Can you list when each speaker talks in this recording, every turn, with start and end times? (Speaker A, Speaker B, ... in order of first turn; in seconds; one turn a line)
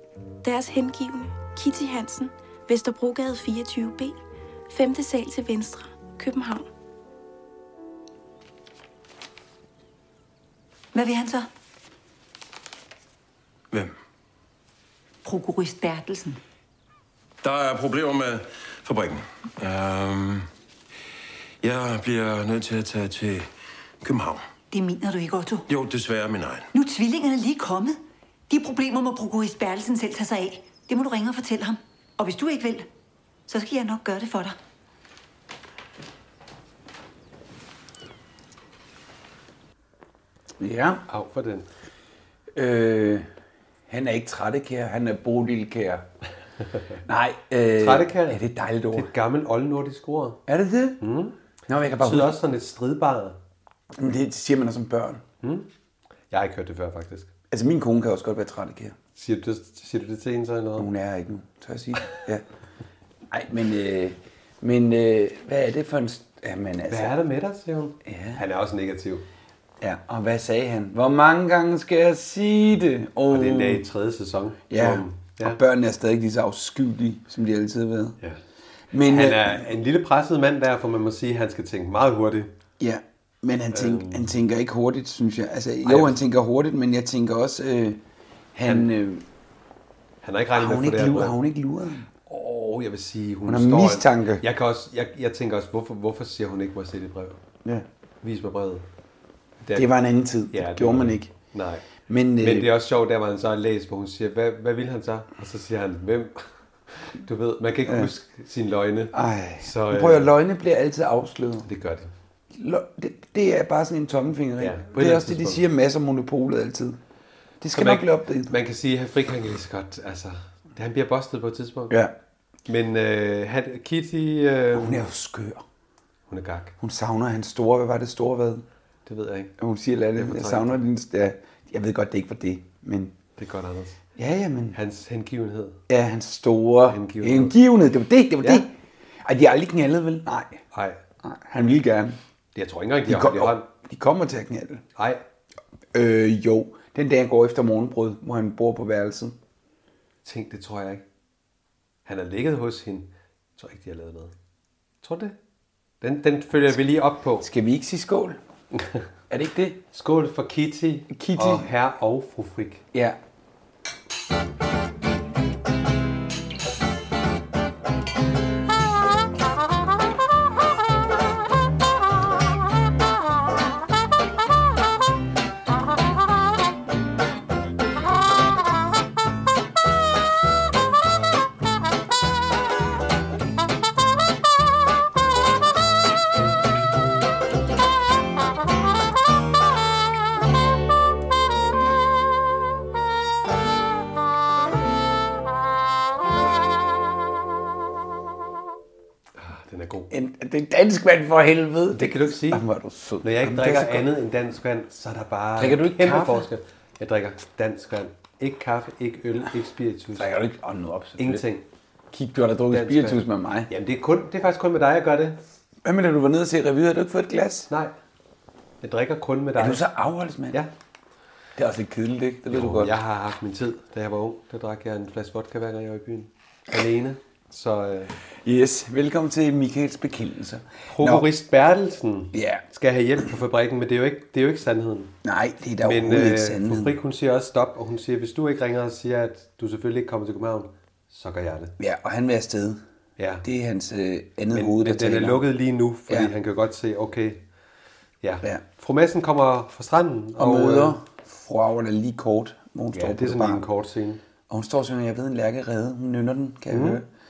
Speaker A: 0.4-6.7
Speaker B: 10.9-11.5
Speaker B: 15.2-16.4
Speaker C: 17.4-20.5
Speaker C: 21.6-23.5
Speaker C: 24.0-24.4
Speaker B: 24.7-25.7
Speaker C: 25.7-26.7
Speaker B: 26.7-32.9
Speaker B: 33.5-34.6
Speaker D: 40.6-41.0
Speaker E: 41.1-41.7
Speaker D: 42.5-43.3
Speaker D: 43.9-46.0
Speaker D: 47.0-49.1
Speaker E: 47.8-48.4
Speaker E: 48.9-50.4
Speaker D: 50.5-51.0
Speaker E: 51.0-51.4
Speaker D: 51.7-52.4
Speaker E: 52.0-53.4
Speaker D: 54.0-55.2
Speaker E: 55.4-55.7
Speaker E: 56.3-57.3
Speaker D: 57.5-59.0
Speaker E: 59.1-60.9
Speaker D: 60.8-62.4
Speaker D: 63.3-67.2
Speaker E: 66.9-69.3
Speaker D: 68.0-68.4
Speaker D: 69.8-73.8
Speaker E: 73.3-75.6
Speaker D: 74.7-78.2
Speaker D: 78.9-79.7
Speaker E: 79.0-82.5
Speaker D: 82.8-88.0
Speaker E: 83.7-84.3
Speaker E: 85.8-86.2
Speaker D: 88.5-89.2
Speaker E: 90.2-91.4
Speaker D: 90.5-92.1
Speaker E: 92.2-97.4
Speaker D: 93.5-94.4
Speaker E: 98.2-98.8
Speaker E: 99.6-99.9
Speaker D: 99.7-101.3
Speaker E: 100.5-101.8
Speaker D: 102.1-102.7
Speaker E: 102.4-110.3
Speaker D: 109.1-111.7
Speaker E: 111.6-112.1
Speaker D: 112.5-117.0
Speaker E: 114.6-115.6
Speaker D: 117.6-118.5
Speaker E: 117.7-122.0
Speaker E: 122.7-125.0
Speaker D: 124.7-125.6
Speaker E: 126.3-126.7
Speaker D: 126.8-128.7
Speaker E: 129.1-129.5
Speaker D: 129.6-133.1
Speaker E: 130.2-130.8
Speaker E: 133.4-134.0
Speaker D: 134.2-134.8
Speaker E: 134.7-135.8
Speaker D: 135.9-138.7
Speaker E: 136.9-137.5
Speaker D: 139.2-140.6
Speaker E: 140.7-141.0
Speaker D: 141.2-142.2
Speaker E: 142.5-143.7
Speaker D: 143.1-144.8
Speaker E: 144.9-145.2
Speaker D: 145.9-149.3
Speaker E: 150.2-151.0
Speaker E: 152.1-154.3
Speaker E: 155.0-155.3
Speaker E: 156.0-157.5
Speaker D: 157.4-158.4
Speaker E: 158.7-159.1
Speaker D: 159.3-159.8
Speaker E: 159.9-162.8
Speaker D: 161.1-161.7
Speaker D: 162.9-163.2
Speaker E: 199.3-200.1
Speaker D: 200.1-204.1
Speaker E: 201.9-202.6
Speaker E: 203.2-210.3
Speaker D: 205.6-206.4
Speaker D: 210.1-211.4
Speaker E: 211.2-211.7
Speaker D: 212.1-213.7
Speaker E: 212.7-215.4
Speaker D: 215.8-217.7
Speaker E: 217.7-217.9
Speaker E: 218.8-219.8
Speaker D: 219.6-220.6
Speaker D: 221.6-222.9
Speaker E: 222.4-228.1
Speaker D: 228.4-231.3
Speaker E: 230.9-235.1
Speaker D: 232.3-232.6
Speaker D: 235.2-236.9
Speaker E: 235.8-241.7
Speaker D: 241.8-242.8
Speaker E: 243.2-243.4
Speaker D: 243.4-245.4
Speaker E: 244.5-247.4
Speaker E: 248.2-251.0
Speaker D: 250.4-253.7
Speaker E: 252.9-254.2
Speaker D: 254.5-257.1
Speaker E: 256.7-257.0